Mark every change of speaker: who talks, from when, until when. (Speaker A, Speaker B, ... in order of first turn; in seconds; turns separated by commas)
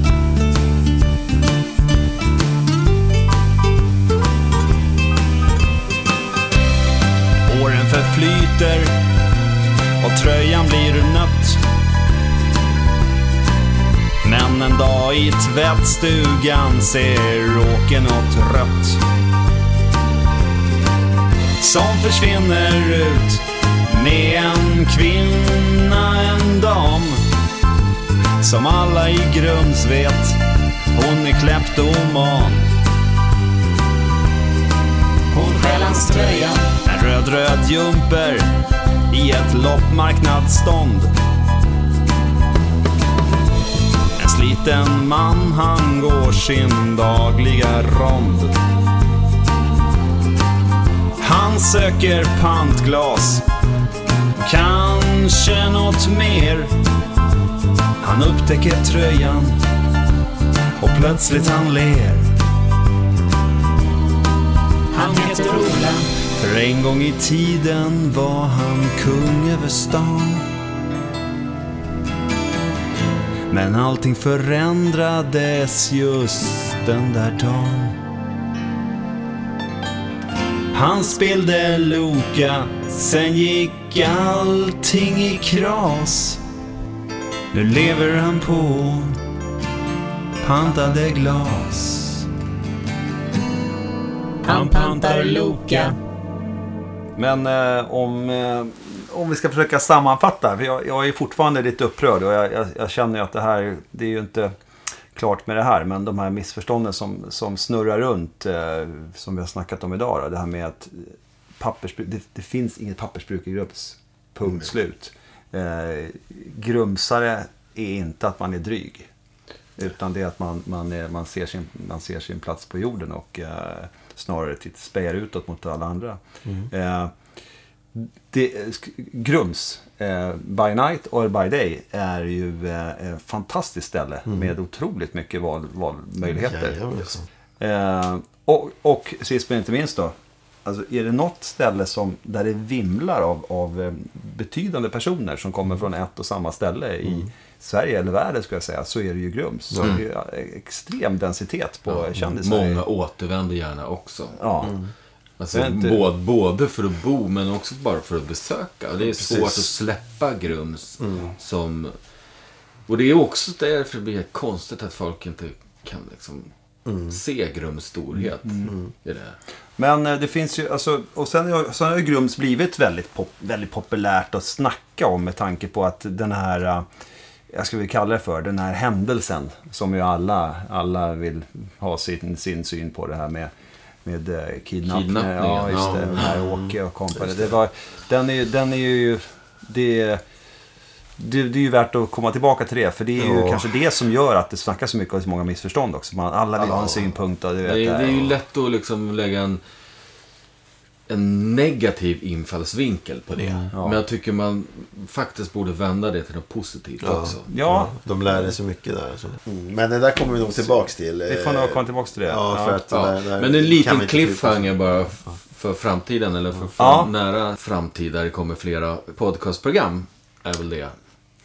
Speaker A: 7.5-8.9, Speaker A: 10.0-11.6, Speaker A: 14.2-19.0, Speaker A: 21.6-27.2, Speaker A: 28.4-30.4, Speaker A: 30.9-32.7, Speaker B: 35.3-36.6, Speaker A: 36.7-38.5, Speaker A: 39.1-41.1, Speaker A: 44.2-48.5, Speaker A: 51.2-53.4, Speaker A: 54.4-56.7, Speaker A: 58.0-59.6, Speaker A: 60.8-62.3, Speaker B: 64.9-66.1, Speaker A: 66.3-70.5, Speaker A: 73.5-78.0, Speaker A: 80.7-86.4, Speaker A: 87.5-89.2, Speaker A: 90.4-92.3, Speaker A: 94.4-95.9, Speaker B: 94.5-95.9, Speaker A: 97.2-104.5, Speaker A: 105.1-119.1, Speaker A: 119.8-127.1, Speaker A: 128.0-136.8, Speaker C: 134.2-134.5, Speaker C: 136.2-137.2, Speaker A: 137.6-152.8, Speaker C: 149.7-150.0, Speaker D: 151.9-154.7, Speaker A: 154.4-154.8, Speaker C: 154.6-154.9, Speaker D: 155.4-161.9, Speaker A: 155.5-156.0, Speaker C: 159.1-159.7, Speaker C: 161.0-161.3, Speaker D: 162.9-166.5, Speaker C: 166.8-167.2, Speaker D: 167.1-169.4, Speaker A: 168.4-168.7, Speaker A: 169.8-176.8, Speaker A: 177.5-183.5, Speaker A: 184.0-190.2, Speaker D: 184.9-186.3, Speaker C: 185.7-186.7, Speaker A: 191.2-198.3, Speaker C: 193.2-193.7, Speaker C: 196.6-197.1, Speaker D: 197.6-199.6, Speaker D: 201.1-207.5, Speaker C: 203.4-203.7, Speaker A: 203.7-204.0, Speaker C: 207.0-214.8, Speaker A: 207.5-207.9, Speaker A: 211.3-212.8, Speaker D: 212.9-220.9, Speaker A: 216.8-217.1